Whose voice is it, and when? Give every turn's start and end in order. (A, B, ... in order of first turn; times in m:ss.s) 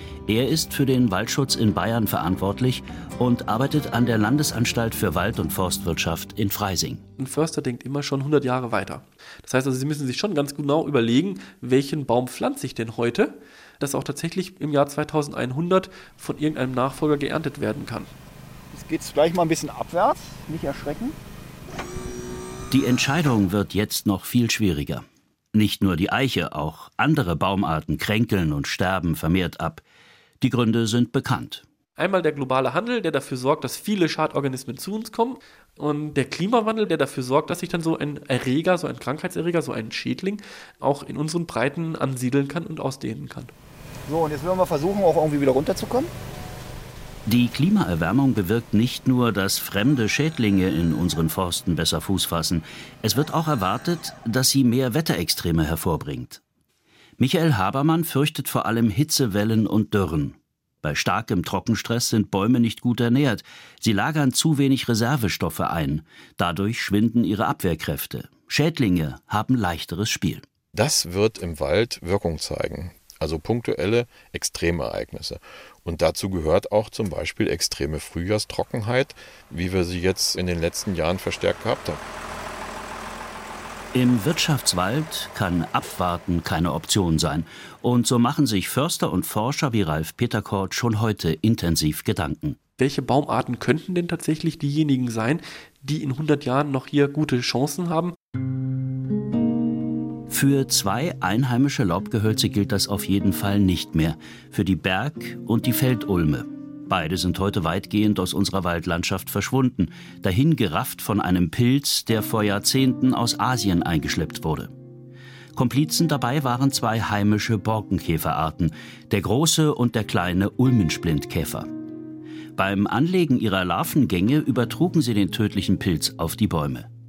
0:00.3-0:07.0 A
0:07.2-0:18.1 B
0:18.7-0:21.2 C
0:22.7-0:29.8 A
0:30.4-0:31.6 A
0:32.0-0:43.5 B
0:44.1-0:46.1 C
0:47.3-0:56.4 A
0:57.2-1:10.4 A
1:10.7-1:22.0 D
1:23.9-1:32.6 A
1:32.8-1:38.1 B
1:40.3-1:54.7 A
1:55.6-2:01.7 A
2:02.6-2:06.9 A